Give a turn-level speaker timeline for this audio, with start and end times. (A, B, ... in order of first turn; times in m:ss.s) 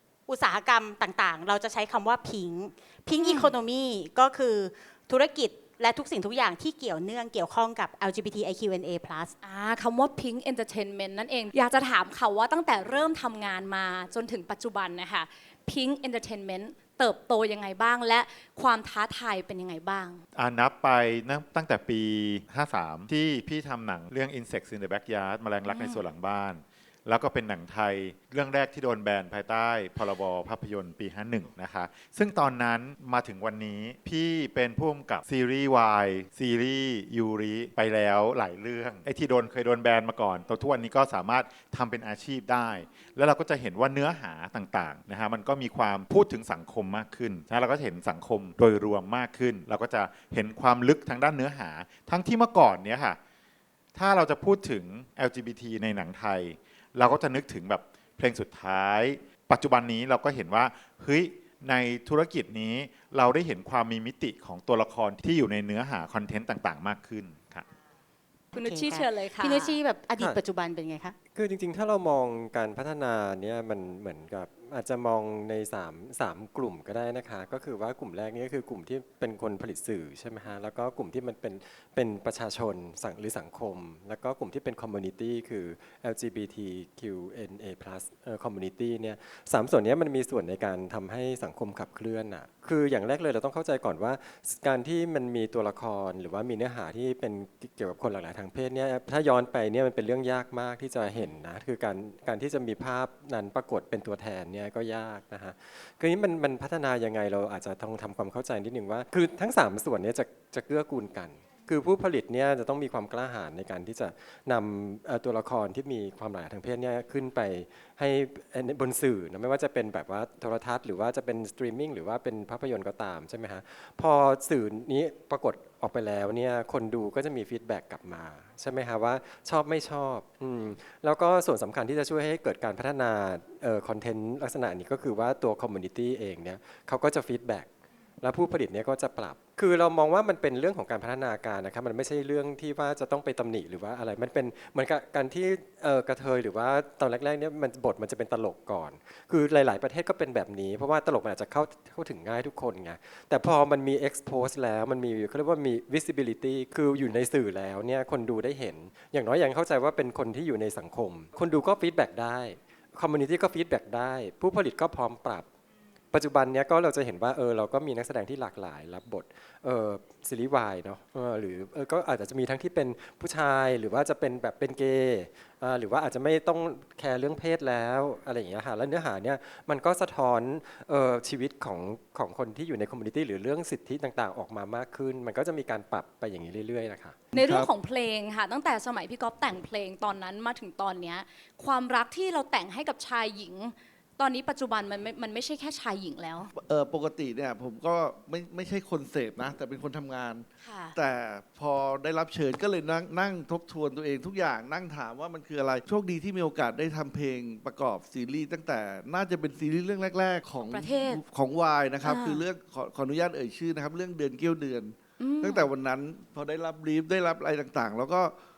0:00.3-0:09.3 A
0:03.2-0:03.5 B
0:09.4-0:20.2 B
0:20.4-0:53.2 C
0:25.7-0:26.0 B
0:54.0-1:07.7 C
1:08.5-1:11.2 A
1:08.5-1:09.8 B
1:11.3-2:17.7 D
2:18.2-2:45.5 D
2:46.1-3:07.3 D
3:07.3-3:07.7 E
3:07.3-3:16.5 B
3:16.6-3:38.3 E
3:20.6-3:21.0 B
3:30.7-3:31.2 B
3:32.0-3:32.4 B
3:35.2-3:35.7 B